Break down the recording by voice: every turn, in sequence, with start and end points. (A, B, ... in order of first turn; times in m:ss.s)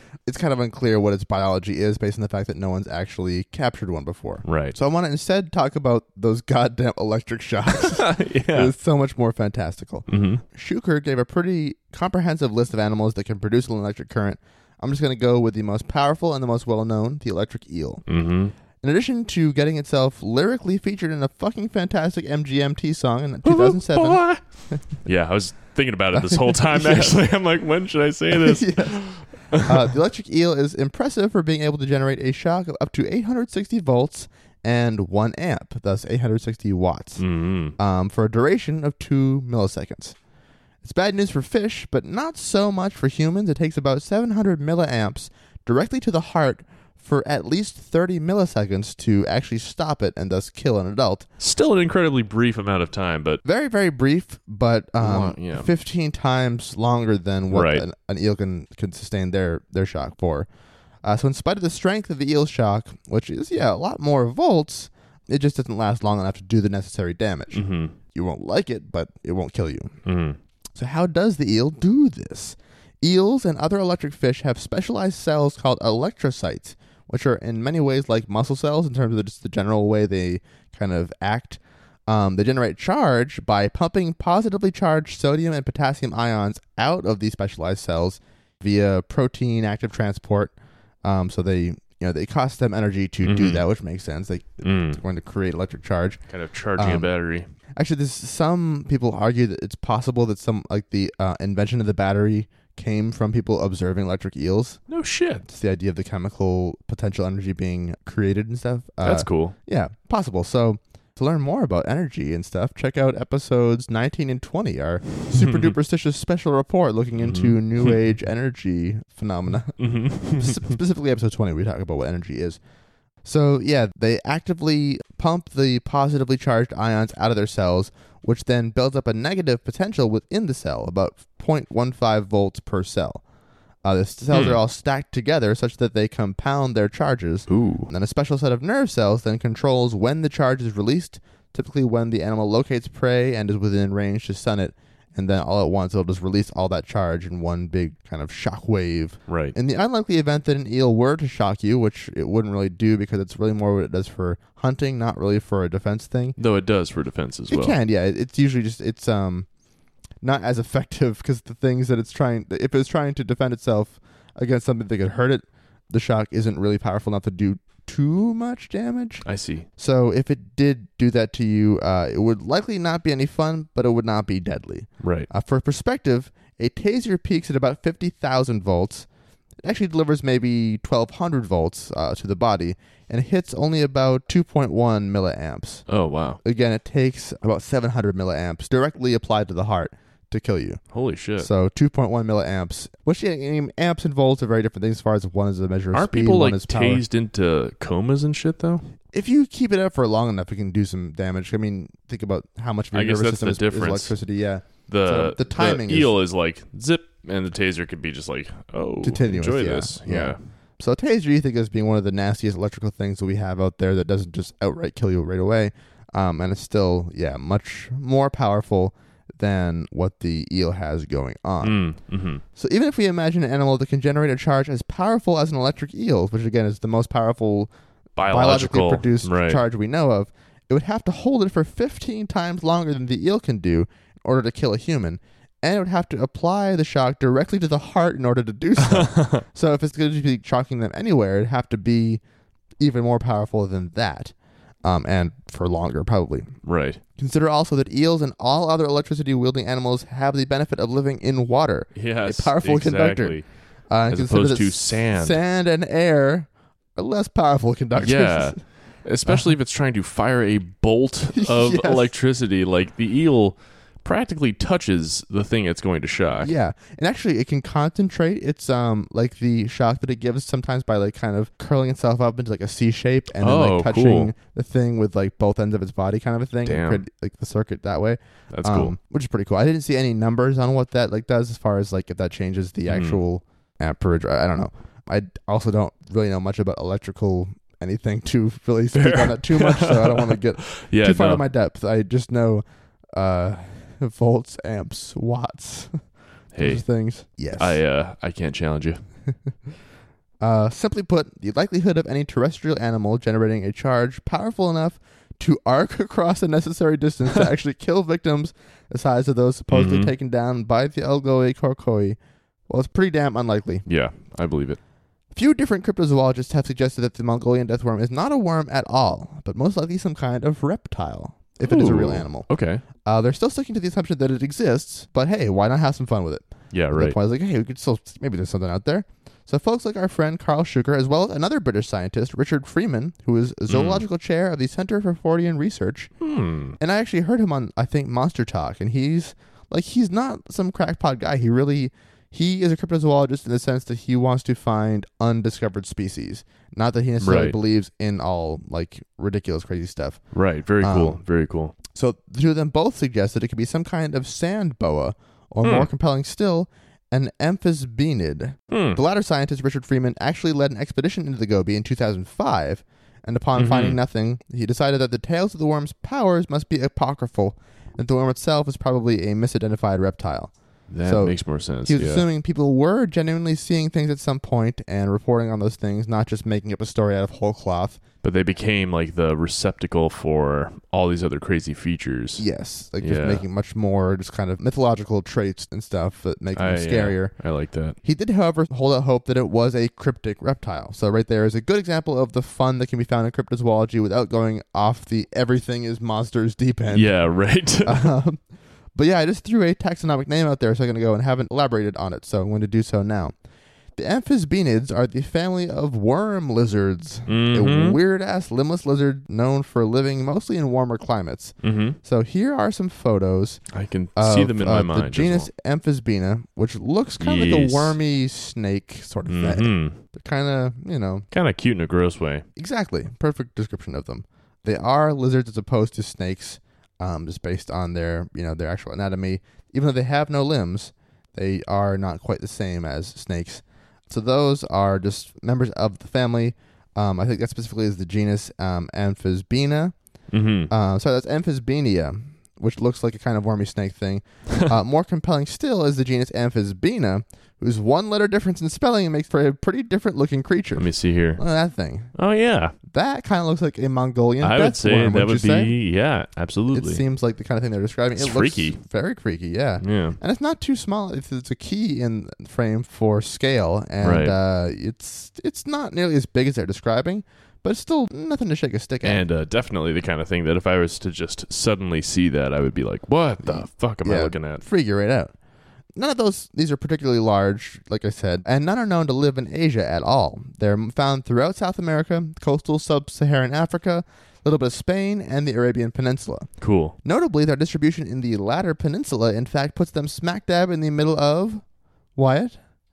0:00.3-0:18.0 A
0:04.4-0:04.8 B
0:07.7-0:08.7 B
0:10.1-0:10.4 B
0:18.0-0:18.5 B
0:18.8-0:24.8 A
0:23.4-0:29.8 B
0:26.2-0:27.2 A
0:28.3-0:37.2 A
0:37.2-0:37.8 B
0:37.8-0:40.2 A
0:40.8-0:51.2 A
0:51.4-0:53.4 B
0:53.4-1:00.5 A
0:55.0-0:55.7 B
0:57.5-0:57.8 B
1:01.0-1:09.9 A
1:07.5-1:07.9 B
1:10.0-1:10.4 B
1:10.8-1:30.5 A
1:31.0-1:36.2 A
1:33.2-1:33.6 B
1:34.6-1:35.0 B
1:36.3-1:37.5 B
1:36.8-1:37.1 A
1:37.8-1:44.8 A
1:44.9-1:45.4 B
1:45.5-1:59.8 A
1:49.0-1:49.5 B
1:55.3-1:55.8 B
1:57.2-1:57.9 B
1:59.8-2:00.8 B
2:00.3-2:02.6 A
2:03.2-2:13.2 A
2:13.8-2:36.4 A
2:14.3-2:14.6 B
2:17.5-2:17.9 B
2:29.3-2:29.5 B
2:36.4-2:37.8 B
2:37.5-2:39.5 A
2:40.2-2:49.2 A
2:49.2-2:49.7 B
2:49.8-2:59.0 A
2:55.0-2:55.3 B
2:59.6-3:05.8 A
3:05.9-3:06.4 B
3:06.4-3:10.8 A
3:10.9-3:11.5 B
3:11.4-3:17.0 A
3:15.9-3:18.8 B
3:19.1-3:26.1 A
3:22.9-3:24.1 B
3:24.9-3:30.4 B
3:29.0-3:41.8 A
3:41.6-3:42.4 B
3:42.5-3:47.7 A
3:48.2-3:49.6 B
3:48.3-4:02.2 A
3:58.8-3:59.4 B
4:02.8-4:04.3 A
4:04.8-4:06.5 A
4:06.6-4:07.0 B
4:07.2-4:13.4 A
4:11.9-4:13.4 B
4:13.9-4:18.6 A
4:14.1-4:15.4 B
4:18.0-4:26.5 B
4:19.2-4:19.5 A
4:21.3-4:22.1 A
4:26.4-4:52.6 A
4:33.4-4:34.3 B
4:36.6-4:37.0 B
4:38.5-4:39.0 B
4:42.9-4:43.2 B
4:48.9-4:51.4 B
4:53.2-4:56.0 A
4:56.5-4:56.8 B
4:56.6-4:57.8 A
4:57.6-4:59.0 B
5:00.4-5:12.2 A
5:09.7-5:10.1 B
5:12.7-5:13.8 A
5:13.8-5:14.8 B
5:15.3-5:22.5 A
5:21.6-5:22.8 B
5:23.0-5:36.1 A
5:26.7-5:27.2 B
5:33.7-5:34.0 B
5:36.2-5:36.8 B
5:36.8-5:50.2 A
5:47.2-5:47.6 B
5:50.3-5:51.7 B
5:50.8-5:51.2 A
5:51.9-6:10.5 A
5:55.6-5:55.9 B
5:58.7-5:59.0 B
6:03.5-6:04.0 B
6:10.9-6:12.2 B
6:11.0-6:18.0 A
6:18.2-6:22.4 B
6:22.4-6:27.3 A
6:23.0-6:23.4 B
6:26.6-6:28.0 B
6:28.0-6:37.1 A
6:36.9-6:38.1 B
6:37.8-6:38.4 A
6:38.9-6:43.3 A
6:44.0-6:53.6 A
6:47.3-6:48.0 B
6:51.6-6:52.0 B
6:53.7-6:55.5 B
6:54.2-7:01.3 A
6:57.2-6:58.0 B
6:59.3-7:00.0 B
7:01.3-7:02.4 B
7:02.6-7:19.9 A
7:20.3-7:20.7 B
7:20.7-7:32.1 A
7:30.7-7:31.4 B
7:32.1-7:32.7 B
7:32.9-7:35.7 A
7:34.4-7:37.0 B
7:36.7-7:49.2 A
7:38.2-7:38.8 B
7:39.8-7:40.2 B
7:44.0-7:44.4 B
7:49.0-7:54.6 B
7:53.4-7:55.3 A
7:56.0-8:06.5 A
8:06.6-8:07.0 B
8:07.0-8:11.6 A
8:12.2-8:12.6 A